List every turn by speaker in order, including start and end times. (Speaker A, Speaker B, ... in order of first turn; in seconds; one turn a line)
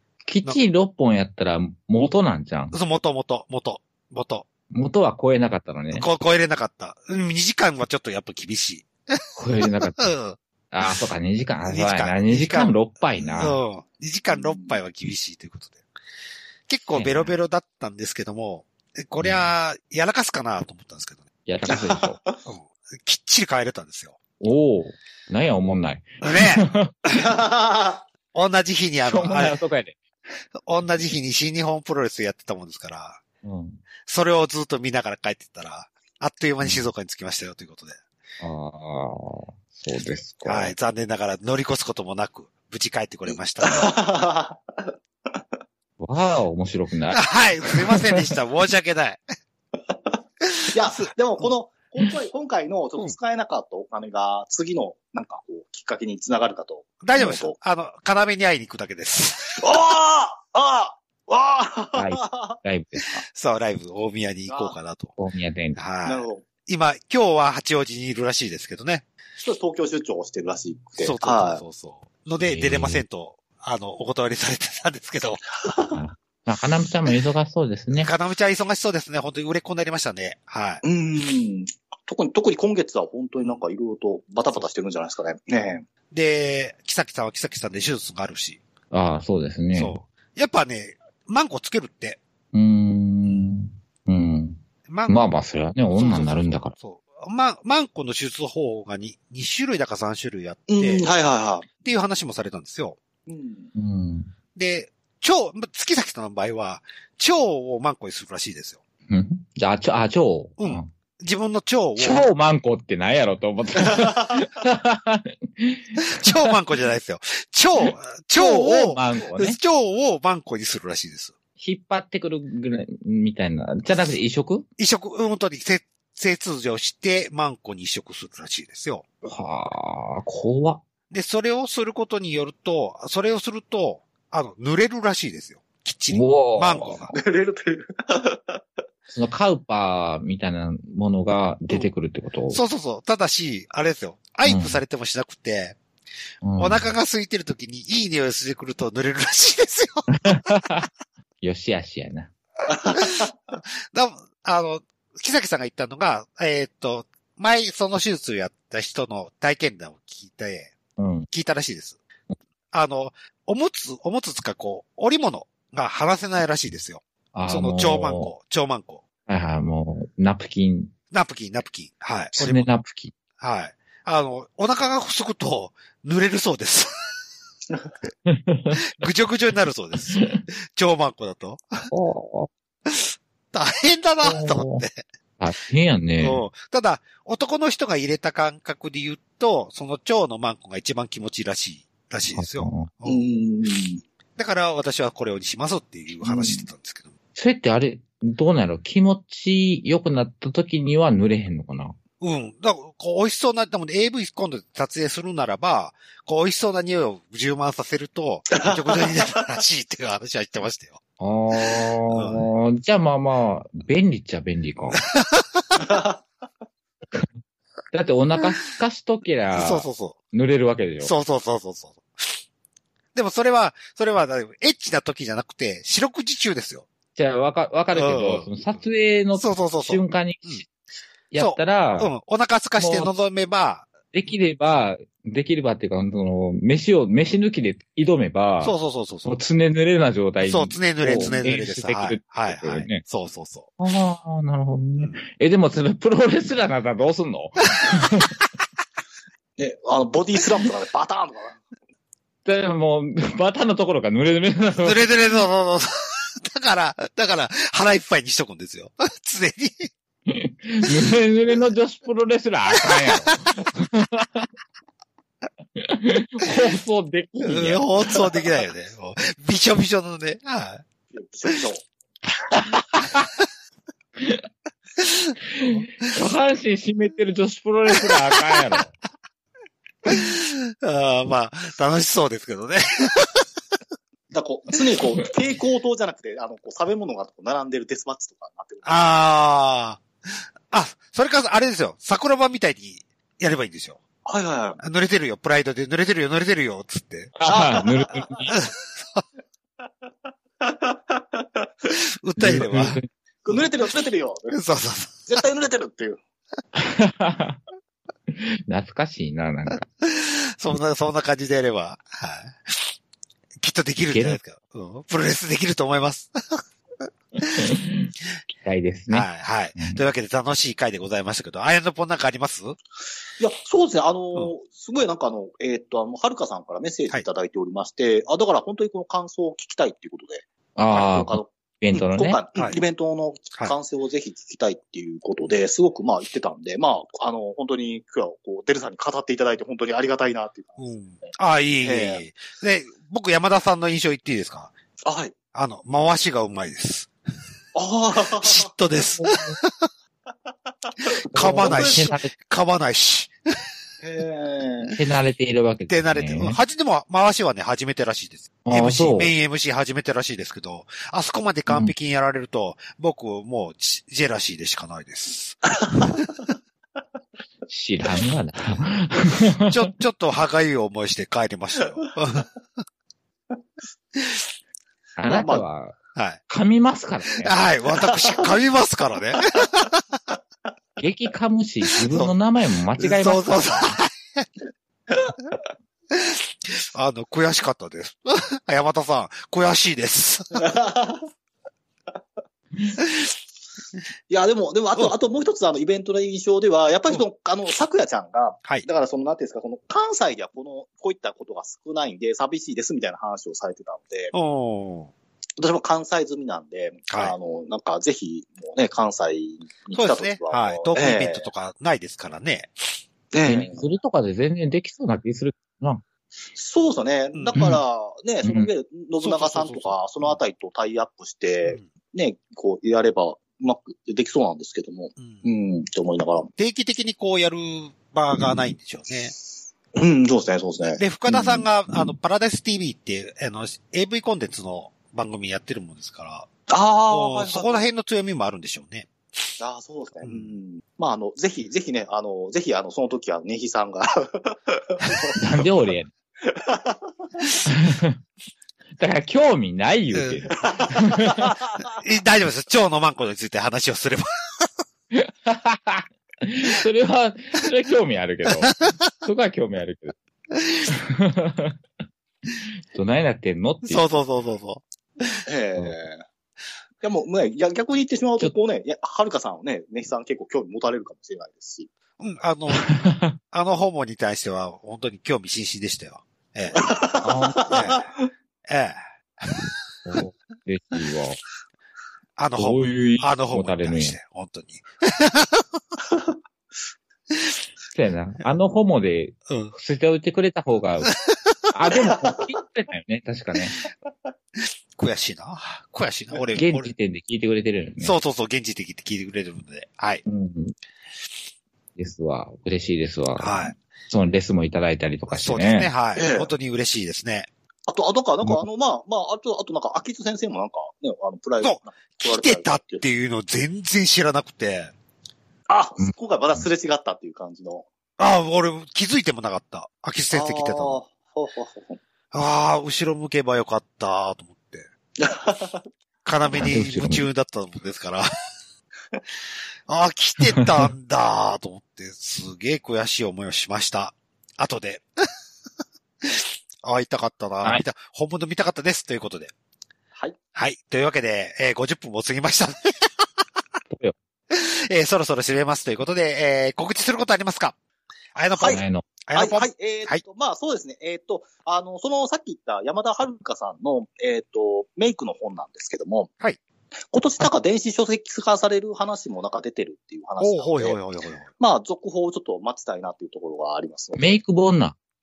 Speaker A: 0.2-2.8
Speaker B: 2.7-4.5
Speaker A: 4.7-6.1
Speaker B: 5.9-11.0
Speaker A: 9.3-10.1
Speaker A: 10.7-13.6
Speaker B: 11.7-15.8
Speaker C: 14.3-14.8
Speaker B: 16.7-21.3
Speaker A: 16.9-17.3
Speaker A: 19.2-19.5
Speaker A: 21.4-22.2
Speaker C: 21.7-22.4
Speaker B: 22.4-24.2
Speaker A: 24.4-26.9
Speaker B: 26.2-26.6
Speaker C: 27.1-28.1
Speaker B: 28.3-29.6
Speaker A: 29.0-30.0
Speaker B: 30.6-33.2
Speaker A: 33.4-33.8
Speaker B: 34.0-38.0
Speaker A: 36.6-36.9
Speaker A: 38.4-40.7
Speaker B: 40.4-44.0
Speaker C: 43.6-45.4
Speaker A: 46.0-47.3
Speaker B: 47.1-49.2
Speaker C: 49.9-50.1
Speaker B: 50.5-51.1
Speaker C: 50.7-57.5
Speaker B: 57.0-59.6
Speaker C: 59.5-62.6
Speaker A: 61.9-63.2
Speaker B: 63.3-65.2
Speaker C: 64.5-64.8
Speaker A: 65.2-65.8
Speaker B: 65.7-69.0
Speaker C: 66.0-66.5
Speaker C: 69.4-71.6
Speaker B: 71.0-75.4
Speaker A: 72.4-73.0
Speaker C: 75.6-76.0
Speaker A: 75.9-78.1
Speaker B: 77.9-80.8
Speaker C: 80.8-85.8
Speaker B: 86.1-88.6
Speaker A: 88.9-90.0
Speaker B: 89.7-92.2
Speaker A: 92.5-96.7
Speaker B: 94.9-95.2
Speaker B: 95.9-101.0
Speaker C: 100.7-101.7
Speaker B: 101.8-103.0
Speaker C: 103.3-103.7
Speaker A: 103.8-104.3
Speaker B: 104.5-108.8
Speaker A: 109.1-110.9
Speaker B: 110.6-112.3
Speaker A: 112.0-116.4
Speaker C: 114.0-114.4
Speaker B: 116.1-121.3
Speaker A: 117.8-119.6
Speaker A: 121.6-124.7
Speaker B: 124.8-129.0
Speaker A: 129.2-130.8
Speaker B: 131.1-137.2
Speaker A: 136.1-137.0
Speaker C: 137.1-138.7
Speaker A: 139.1-142.6
Speaker B: 142.5-145.8
Speaker A: 144.4-144.8
Speaker A: 146.4-146.9
Speaker B: 146.6-150.6
Speaker A: 150.2-150.9
Speaker A: 151.4-152.3
Speaker C: 152.7-153.3
Speaker B: 152.9-153.2
Speaker B: 153.9-160.7
Speaker A: 161.0-161.3
Speaker B: 161.3-162.0
Speaker B: 162.7-169.0
Speaker A: 167.3-168.3
Speaker A: 169.3-170.9
Speaker B: 171.1-172.7
Speaker A: 172.3-173.1
Speaker B: 173.4-176.9
Speaker A: 178.3-178.8
Speaker B: 178.9-181.9
Speaker A: 180.1-180.4
Speaker A: 181.9-182.5
Speaker B: 182.9-185.0
Speaker A: 184.2-184.8
Speaker A: 185.4-186.4
Speaker B: 186.2-193.2
Speaker A: 192.3-192.9
Speaker C: 193.0-194.0
Speaker B: 194.4-197.1
Speaker A: 197.3-201.9
Speaker B: 202.2-211.0
Speaker C: 208.6-209.4
Speaker A: 211.2-215.0
Speaker B: 212.1-212.5
Speaker B: 214.9-215.8
Speaker C: 215.8-216.2
Speaker A: 217.9-221.1
Speaker B: 219.5-220.2
Speaker B: 221.0-222.4
Speaker B: 223.1-226.9
Speaker A: 227.2-230.7
Speaker B: 227.9-228.8
Speaker B: 229.4-230.6
Speaker A: 231.3-232.1
Speaker B: 231.4-233.9
Speaker A: 232.8-233.1
Speaker A: 234.1-243.0
Speaker B: 238.6-239.3
Speaker B: 240.4-243.7
Speaker A: 243.8-248.3
Speaker C: 249.6-251.6
Speaker A: 252.4-255.0
Speaker B: 254.8-259.9
Speaker A: 260.3-264.5
Speaker B: 262.8-263.4
Speaker A: 265.8-268.2
Speaker B: 267.4-270.8
Speaker C: 271.1-271.8
Speaker A: 272.5-273.3
Speaker A: 274.2-274.4
Speaker A: 275.5-278.9
Speaker B: 280.1-283.4
Speaker C: 284.3-289.1
Speaker B: 288.8-290.0
Speaker B: 290.7-294.0
Speaker C: 294.2-294.8
Speaker B: 294.8-297.4
Speaker A: 297.4-298.5
Speaker C: 297.4-298.5
Speaker B: 298.5-299.2
Speaker C: 300.6-301.9
Speaker B: 301.9-303.6
Speaker A: 302.4-303.0
Speaker C: 303.4-304.6
Speaker B: 304.5-305.3
Speaker C: 305.3-306.2
Speaker A: 306.7-307.6
Speaker A: 308.3-309.9
Speaker B: 310.0-312.9
Speaker B: 313.6-316.6
Speaker A: 314.1-314.4
Speaker B: 317.4-317.7
Speaker A: 317.5-320.0
Speaker B: 319.1-322.8
Speaker C: 323.4-340.9
Speaker A: 330.8-332.4
Speaker B: 340.8-344.7
Speaker C: 341.8-342.2
Speaker C: 345.0-345.3
Speaker B: 345.5-347.1
Speaker C: 347.7-348.7
Speaker B: 348.3-349.9
Speaker A: 349.2-349.6
Speaker B: 351.3-353.3
Speaker A: 351.3-352.3
Speaker C: 351.6-352.1
Speaker C: 354.0-354.9
Speaker A: 354.9-356.6
Speaker B: 355.9-365.6
Speaker A: 358.6-359.3
Speaker C: 365.7-366.3
Speaker A: 367.7-369.8
Speaker B: 369.6-372.8
Speaker A: 375.2-375.9
Speaker C: 375.3-375.6
Speaker B: 376.1-376.4
Speaker A: 376.5-377.5
Speaker B: 377.4-379.9
Speaker C: 378.1-378.4
Speaker A: 381.0-384.0
Speaker B: 382.1-382.3
Speaker B: 383.0-384.5
Speaker C: 385.1-385.3
Speaker B: 386.1-390.6
Speaker C: 390.6-391.2
Speaker C: 394.3-404.3
Speaker B: 404.3-405.1
Speaker C: 405.6-411.5
Speaker B: 407.1-407.4
Speaker B: 409.9-413.0
Speaker C: 413.3-413.9
Speaker A: 413.4-416.0
Speaker C: 416.5-426.5
Speaker B: 417.3-417.6
Speaker A: 417.5-417.8
Speaker A: 418.4-418.7
Speaker B: 419.2-420.3
Speaker B: 425.2-425.4
Speaker B: 426.6-429.3
Speaker C: 429.9-432.1
Speaker B: 431.0-436.5
Speaker C: 436.7-437.9
Speaker B: 437.1-439.1
Speaker C: 439.6-445.7
Speaker B: 440.2-440.5
Speaker A: 445.3-446.1
Speaker C: 446.4-447.4
Speaker A: 447.7-448.2
Speaker A: 449.0-451.5
Speaker B: 450.1-450.5
Speaker C: 450.6-451.9
Speaker B: 451.8-454.7
Speaker A: 455.1-460.1
Speaker B: 458.7-459.1
Speaker A: 460.9-461.8
Speaker A: 462.9-464.2
Speaker B: 463.8-465.4
Speaker C: 465.4-466.2
Speaker C: 467.0-471.9
Speaker B: 472.2-472.9
Speaker A: 472.8-473.3
Speaker B: 473.5-476.9
Speaker C: 476.7-478.0
Speaker A: 477.2-477.8
Speaker B: 477.7-478.0
Speaker B: 478.7-479.0
Speaker A: 480.1-481.4
Speaker B: 482.4-485.6
Speaker A: 482.6-484.2
Speaker A: 487.9-491.1
Speaker B: 489.5-489.7
Speaker B: 491.3-491.5
Speaker A: 491.7-493.8
Speaker C: 491.9-492.5
Speaker B: 495.0-496.9
Speaker A: 496.5-498.2
Speaker B: 498.0-500.2
Speaker A: 500.2-500.7
Speaker A: 502.0-505.9
Speaker B: 503.4-503.8
Speaker B: 505.3-507.5
Speaker C: 506.1-506.5
Speaker C: 507.9-513.0
Speaker B: 511.6-514.9
Speaker C: 515.7-517.9
Speaker A: 516.0-516.6
Speaker B: 518.2-521.0
Speaker C: 520.3-522.0
Speaker B: 522.3-524.9
Speaker C: 525.2-525.8
Speaker B: 526.2-528.3
Speaker A: 526.5-527.2
Speaker B: 529.9-535.0
Speaker B: 536.2-539.5
Speaker B: 540.5-543.1
Speaker A: 543.9-544.1
Speaker B: 544.5-547.7
Speaker B: 548.3-550.2
Speaker C: 548.6-556.3
Speaker A: 548.7-549.0
Speaker C: 557.1-561.0
Speaker B: 560.4-561.5
Speaker C: 561.6-564.4
Speaker A: 564.2-565.0